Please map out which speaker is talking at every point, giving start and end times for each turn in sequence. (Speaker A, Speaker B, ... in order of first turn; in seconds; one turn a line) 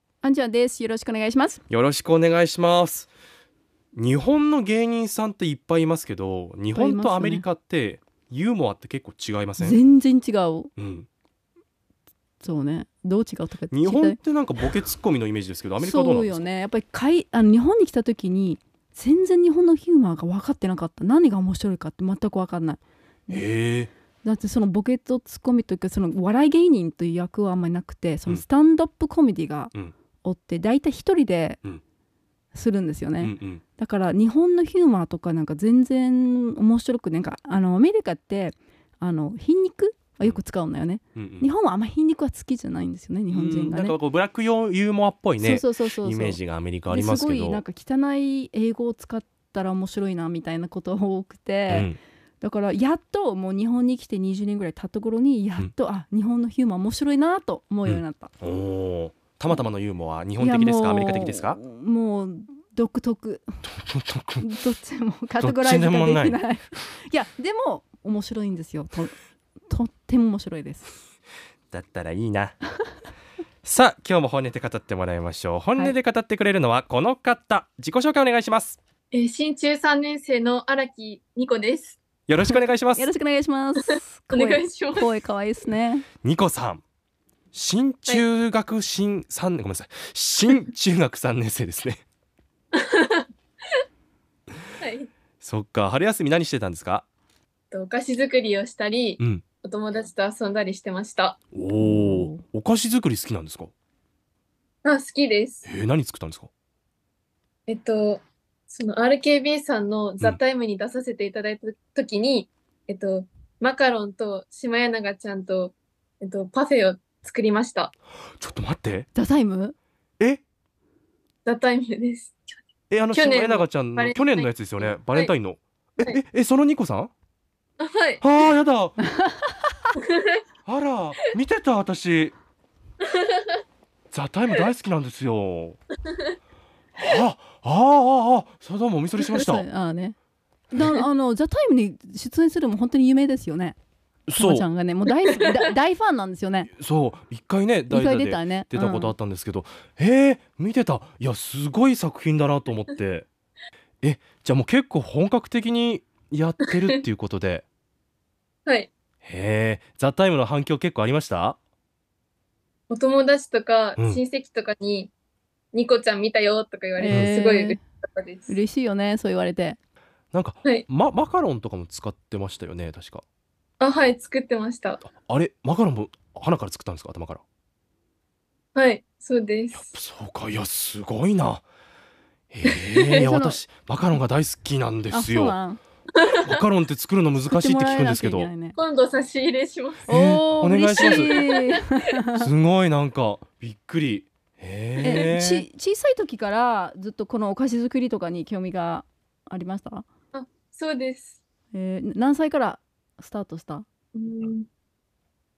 Speaker A: 0.2-1.6
Speaker B: 1.7-3.1
Speaker B: 3.9-9.8
Speaker A: 6.7-7.5
Speaker A: 9.6-10.7
Speaker B: 10.8-11.1
Speaker A: 12.4-14.2
Speaker B: 13.7-16.4
Speaker A: 15.8-23.4
Speaker B: 23.3-23.9
Speaker A: 24.2-29.7
Speaker A: 30.2-31.6
Speaker A: 32.5-44.0
Speaker B: 33.2-33.6
Speaker B: 41.1-41.5
Speaker B: 43.3-47.6
Speaker A: 45.4-58.3
Speaker B: 51.7-52.0
Speaker B: 57.9-61.6
Speaker A: 60.4-63.4
Speaker B: 63.6-64.5
Speaker A: 64.4-69.1
Speaker B: 65.4-66.4
Speaker A: 69.7-71.0
Speaker B: 71.7-72.6
Speaker B: 73.6-78.8
Speaker C: 79.1-82.0
Speaker B: 82.3-83.1
Speaker A: 82.4-86.0
Speaker C: 83.8-85.1
Speaker B: 86.2-86.8
Speaker B: 87.5-92.0
Speaker C: 92.7-93.2
Speaker C: 94.8-95.1
Speaker B: 95.4-97.1
Speaker C: 97.7-101.4
Speaker B: 101.5-103.7
Speaker A: 101.8-102.4
Speaker C: 104.8-105.7
Speaker B: 105.6-106.5
Speaker C: 107.7-117.9
Speaker B: 118.4-119.1
Speaker A: 119.1-119.7
Speaker C: 121.5-122.3
Speaker B: 122.9-127.1
Speaker C: 123.1-125.3
Speaker C: 127.8-128.2
Speaker B: 128.2-129.0
Speaker A: 129.1-129.5
Speaker C: 130.0-130.4
Speaker B: 130.7-132.3
Speaker C: 133.1-133.6
Speaker B: 134.1-135.8
Speaker B: 137.0-139.7
Speaker A: 139.3-140.2
Speaker A: 140.7-143.8
Speaker B: 144.3-144.7
Speaker A: 144.3-146.7
Speaker C: 145.3-145.6
Speaker B: 146.7-153.3
Speaker A: 147.9-149.1
Speaker B: 154.0-157.6
Speaker B: 159.2-161.6
Speaker C: 162.9-165.1
Speaker C: 165.7-168.6
Speaker A: 167.0-167.8
Speaker A: 168.5-169.8
Speaker B: 170.3-173.2
Speaker C: 173.8-175.0
Speaker B: 175.0-177.4
Speaker C: 178.7-179.9
Speaker B: 179.7-181.7
Speaker B: 182.5-185.6
Speaker C: 182.7-183.3
Speaker A: 183.1-183.6
Speaker A: 185.1-185.8
Speaker B: 186.4-188.5
Speaker A: 187.4-188.8
Speaker C: 188.7-190.1
Speaker A: 190.1-192.4
Speaker B: 190.1-191.3
Speaker C: 190.9-191.8
Speaker B: 192.3-195.7
Speaker A: 195.0-200.1
Speaker C: 195.1-195.3
Speaker C: 200.3-201.4
Speaker A: 201.7-203.8
Speaker C: 204.1-204.7